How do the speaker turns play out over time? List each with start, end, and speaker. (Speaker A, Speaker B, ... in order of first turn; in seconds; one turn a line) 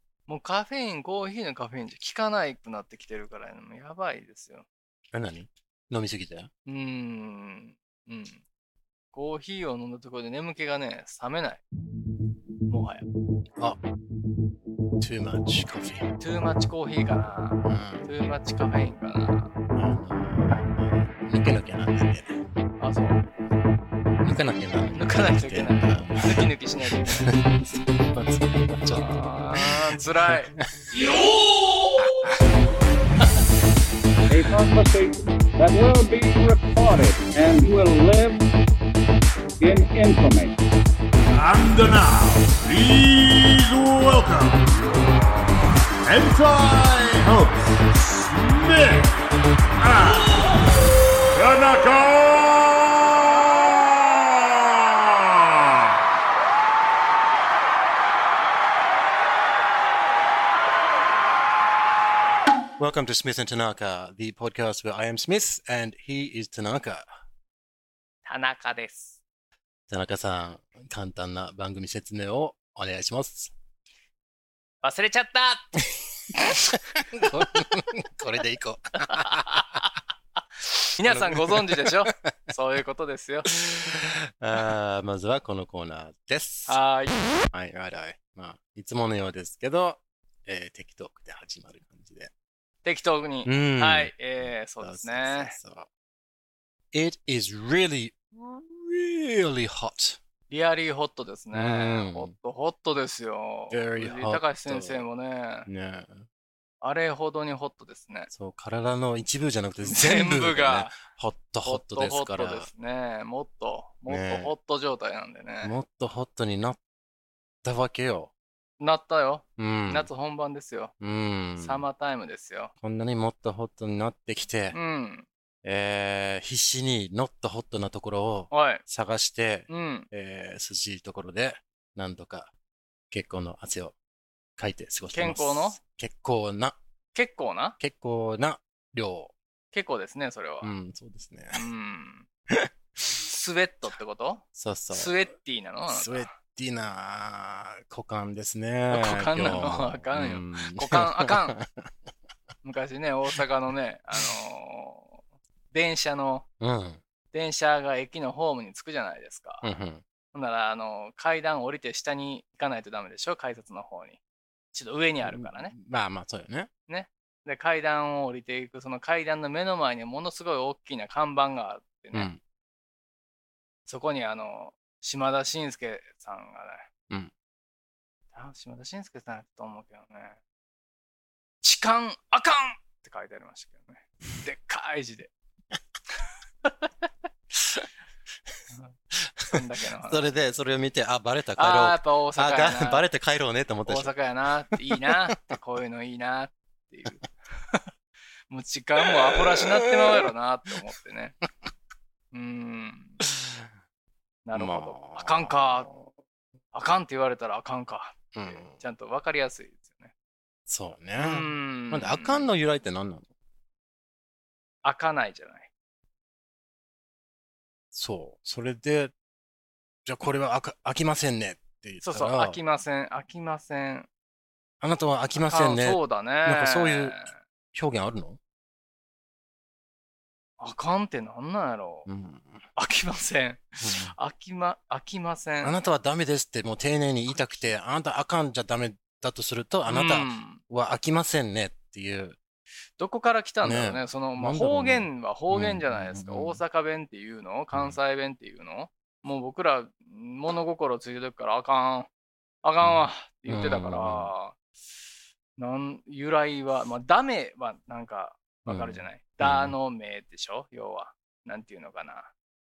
Speaker A: 0.3-4.7
Speaker B: 5.1-6.5
Speaker A: 6.7-8.4
Speaker A: 9.1-11.6
Speaker A: 12.7-13.1
Speaker B: 15.0-16.1
Speaker A: 16.2-19.5
Speaker B: 17.6-18.1
Speaker B: 19.8-22.3
Speaker A: 22.8-23.3
Speaker B: 24.2-30.7
Speaker A: 24.9-27.3
Speaker A: 28.9-30.5
Speaker C: 34.3-38.5
Speaker C: 39.6-40.6
Speaker D: 41.3-45.0
Speaker D: 46.0-47.6
Speaker D: 48.2-49.1
Speaker D: 49.8-50.5
Speaker D: 51.3-53.4
Speaker D: 54.1-55.2
Speaker B: 62.8-67.0
Speaker A: 68.2-69.2
Speaker B: 69.9-73.5
Speaker A: 74.8-75.8
Speaker B: 75.9-79.8
Speaker A: 76.4-77.4
Speaker A: 79.1-79.8
Speaker A: 81.0-83.5
Speaker B: 81.0-82.3
Speaker B: 83.5-86.8
Speaker A: 86.7-87.2
Speaker B: 87.5-92.3
Speaker A: 92.8-95.6
Speaker B: 93.5-95.9
Speaker B: 96.9-100.2
Speaker A: 100.5-105.7
Speaker B: 101.5-102.3
Speaker B: 103.7-105.1
Speaker B: 105.7-106.3
Speaker A: 106.8-108.3
Speaker B: 108.3-112.7
Speaker A: 109.8-111.0
Speaker A: 111.7-115.8
Speaker B: 114.1-114.5
Speaker B: 115.6-116.8
Speaker B: 117.6-118.3
Speaker A: 118.8-120.9
Speaker B: 119.6-120.1
Speaker B: 121.0-121.8
Speaker A: 121.6-122.7
Speaker B: 122.8-124.8
Speaker A: 124.7-125.3
Speaker B: 125.6-132.5
Speaker A: 128.5-128.8
Speaker A: 129.7-130.1
Speaker B: 133.1-133.9
Speaker B: 134.6-136.8
Speaker A: 135.1-135.8
Speaker A: 137.1-137.8
Speaker B: 137.8-139.3
Speaker A: 139.7-140.7
Speaker B: 140.6-141.7
Speaker A: 141.5-142.3
Speaker A: 143.1-146.3
Speaker B: 144.6-145.2
Speaker B: 145.9-151.9
Speaker A: 148.9-151.6
Speaker A: 152.6-155.2
Speaker A: 155.7-156.5
Speaker B: 156.6-157.0
Speaker A: 157.3-159.7
Speaker B: 159.6-160.0
Speaker A: 160.3-164.2
Speaker A: 164.7-165.7
Speaker B: 165.2-166.7
Speaker A: 166.9-172.3
Speaker B: 172.1-172.4
Speaker A: 173.9-176.9
Speaker A: 178.3-180.4
Speaker A: 181.6-185.3
Speaker A: 186.2-186.9
Speaker B: 189.1-194.2
Speaker A: 189.5-190.2
Speaker A: 191.6-193.1
Speaker A: 193.9-197.9
Speaker B: 194.7-195.5
Speaker A: 198.5-201.3
Speaker B: 199.3-200.3
Speaker A: 202.3-203.2
Speaker B: 203.2-203.6
Speaker A: 204.4-205.9
Speaker B: 204.5-206.1
Speaker A: 206.7-210.1
Speaker B: 208.3-208.8
Speaker B: 210.7-213.3
Speaker A: 211.2-212.5
Speaker A: 214.8-215.7
Speaker B: 217.9-219.1
Speaker B: 220.1-222.6
Speaker A: 222.0-224.1
Speaker B: 224.8-227.2
Speaker A: 225.3-227.4
Speaker B: 227.7-228.4
Speaker A: 230.6-232.1
Speaker B: 232.1-232.7
Speaker A: 232.8-235.8
Speaker B: 233.8-234.2
Speaker B: 235.6-242.4
Speaker A: 237.3-237.8
Speaker A: 239.9-240.6
Speaker A: 243.0-252.1
Speaker B: 243.6-246.6
Speaker A: 252.6-254.6
Speaker B: 252.8-254.3
Speaker A: 255.6-262.3
Speaker B: 258.7-259.8